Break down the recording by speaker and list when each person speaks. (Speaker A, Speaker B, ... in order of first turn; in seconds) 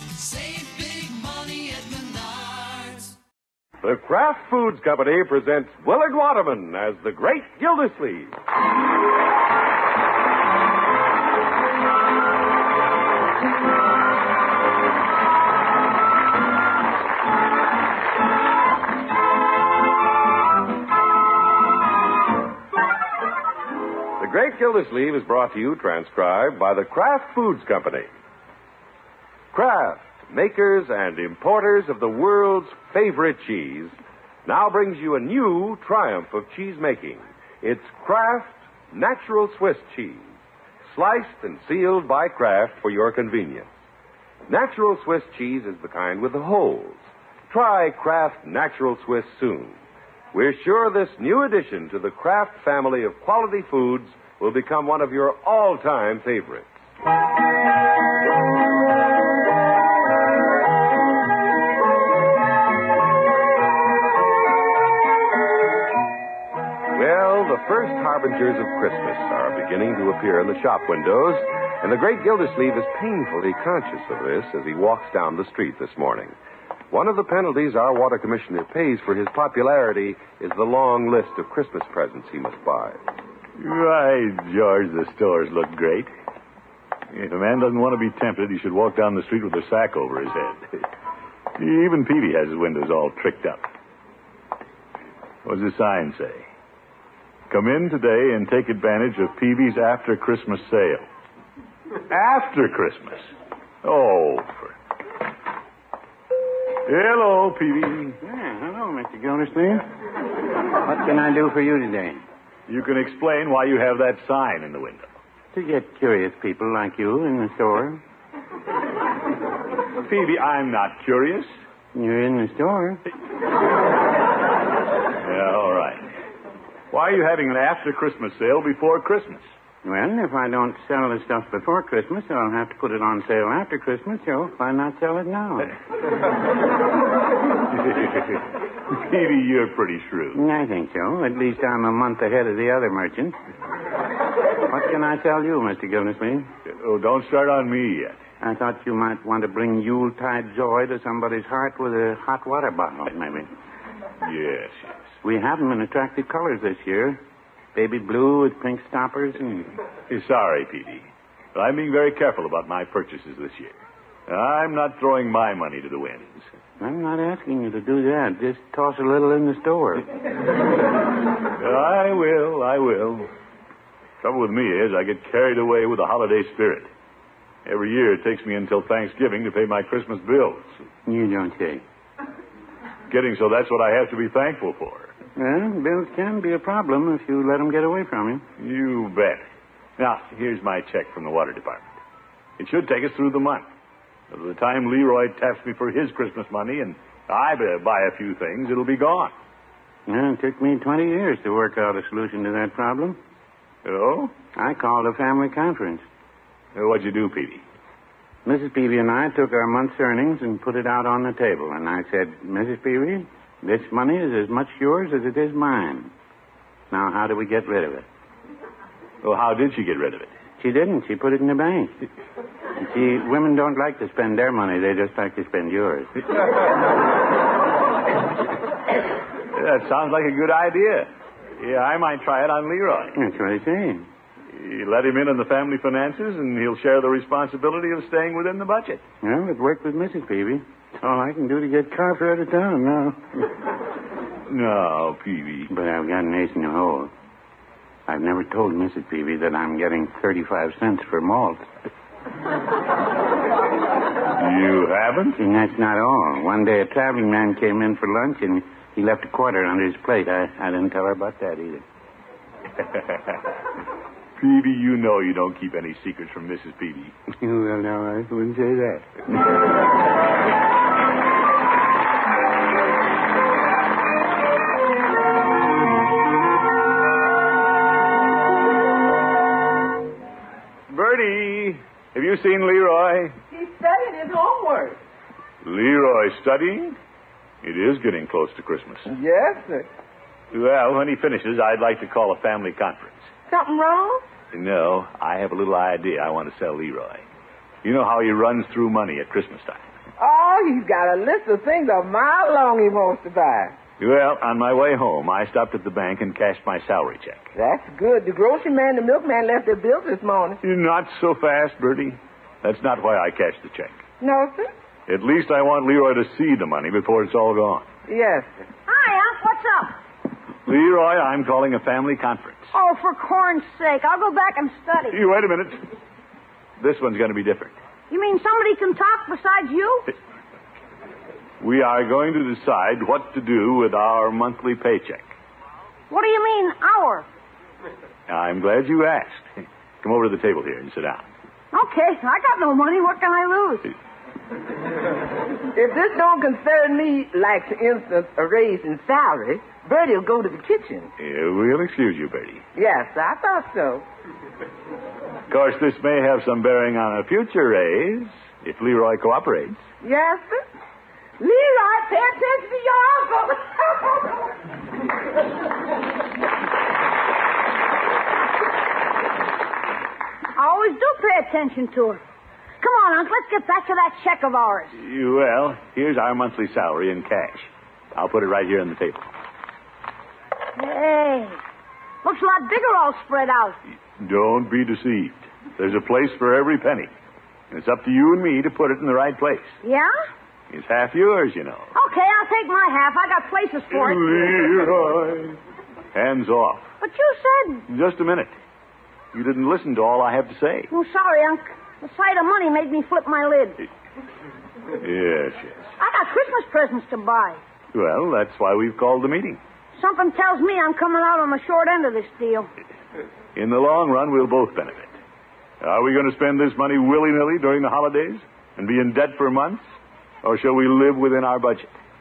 Speaker A: 0.1-3.1
Speaker B: 3.8-8.3, 24.2-28.1, 29.5-40.3, 40.9-43.7, 44.5-49.8, 50.3-56.7, 66.9-76.3, 76.9-83.0
Speaker C: 83.6-86.1, 87.1-90.6, 91.6-93.7, 95.4-96.4, 97.5-101.0, 102.1-103.3, 103.8-104.7, 106.8-108.2, 112.7-115.1, 120.0-121.5, 125.2-126.0, 126.9-129.4, 138.9-140.4, 146.7-148.2, 154.2-154.9, 160.1-163.8, 164.3-166.5, 171.6-173.3, 174.2-176.9, 177.7-180.7, 183.1-185.1, 188.6-189.4, 190.0-191.9, 192.6-193.6, 194.3-199.3, 203.8-204.3, 206.7-207.6, 219.2-220.3, 229.5-233.2, 234.5-239.0, 244.5-245.7, 254.3-255.4, 264.4-267.1, 280.9-283.4, 285.6-287.0, 287.6-289.1, 290.5-293.3, 294.5-297.2, 297.8-299.8, 304.0-307.5, 310.6-314.0, 315.1-317.9, 320.6-322.7, 325.1-325.8, 326.8-327.8, 331.6-335.3, 338.3-339.5, 340.0-341.2, 351.2-352.6, 355.5-359.8, 374.9-379.3, 384.2-387.1, 387.7-389.7, 390.7-391.9, 393.9-395.6, 396.1-396.9, 397.9-398.5, 399.3-400.9, 405.0-405.9, 407.9-409.6, 413.5-415.1, 415.8-419.8, 420.4-421.9
Speaker D: 108.2-109.9, 110.8-112.2, 115.5-118.0, 121.9-123.0, 129.8-135.7, 140.3-143.3, 144.6-146.5, 148.4-153.5, 155.2-157.2, 157.7-159.7, 166.8-170.1, 181.1-181.8, 185.3-188.4, 200.1-203.2, 204.5-206.0, 208.4-216.1, 216.9-218.1, 220.6-221.9, 222.8-226.1, 233.1-234.1, 239.2-243.5, 245.7-247.1, 248.1-251.6, 255.3-261.8, 267.4-269.2
Speaker E: 283.5-285.0, 289.1-289.9, 293.5-294.2, 300.2-303.8, 307.5-310.6, 314.2-314.7, 318.1-318.6, 345.7-351.1, 352.7-354.0, 360.0-360.6, 361.4-364.6
Speaker F: 318.9-319.9, 322.7-325.2, 328.1-330.1, 336.1-337.2, 341.7-343.9, 370.6-372.2, 372.8-374.9, 380.8-381.6, 382.2-383.8, 389.8-390.1, 391.9-394.5, 397.0-397.8, 400.9-403.9, 406.0-407.6, 409.9-412.7